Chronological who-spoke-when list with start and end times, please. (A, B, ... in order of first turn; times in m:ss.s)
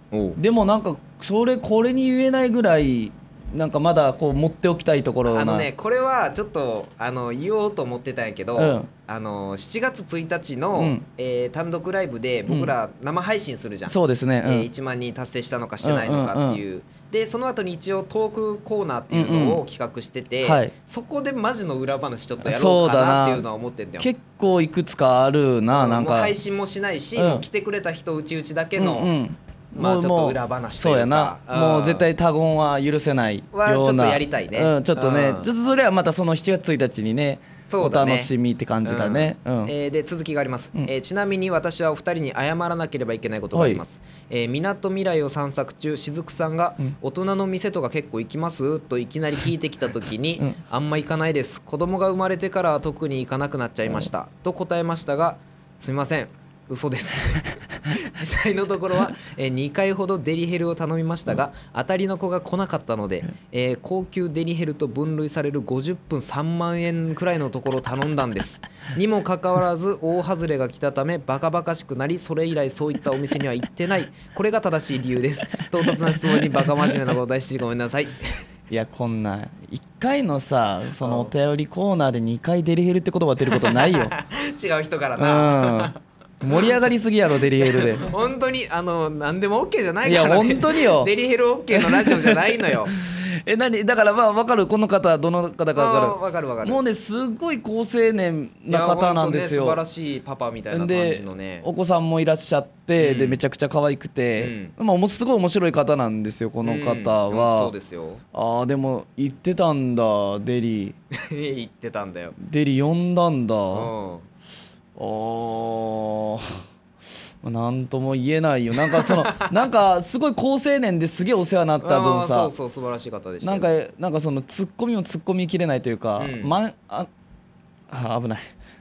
0:00.1-0:00.4 A
0:00.4-0:05.7 B
0:05.3-0:24.1 A
0:08.6-0:08.9 B
0:10.8-0:11.0 B
0:13.9-0:14.7 B
0:15.8-0:16.6 B
0:19.1-0:19.6 B
0:20.4-0:20.7 B
0:22.4-0:23.4 B
0:24.0-0:26.4 B
0:25.7-0:29.1 A
0:27.2-0:27.4 B
0:28.8-0:39.7 B
0:29.8-0:32.1 A
0:33.5-0:35.5 A
0:37.7-0:38.3 A
0:38.8-1:18.5 A
0:43.5-0:43.8 B
1:18.7-1:24.1 B
1:21.0-1:21.3 A
1:23.4-1:26.8 A
1:25.2-1:28.1 B
1:27.4-1:32.9 A
1:30.0-1:31.1 B
1:31.7-1:39.8 B
1:35.8-1:36.8 A
1:38.7-1:41.7 A
1:40.7-1:47.7 B
1:43.0-1:43.4 A
1:44.4-1:44.7 A
1:46.6-1:48.2 A
1:48.3-1:51.0 B
1:51.1-1:52.4 A
1:52.4-1:53.9 B
1:53.7-1:54.3 A
1:55.0-1:56.6 B
1:57.4-2:02.5 B
1:58.8-1:59.6 A
2:01.8-2:03.7 A
2:03.4-2:07.1 B
2:06.2-2:06.6 A
2:07.9-2:08.5 B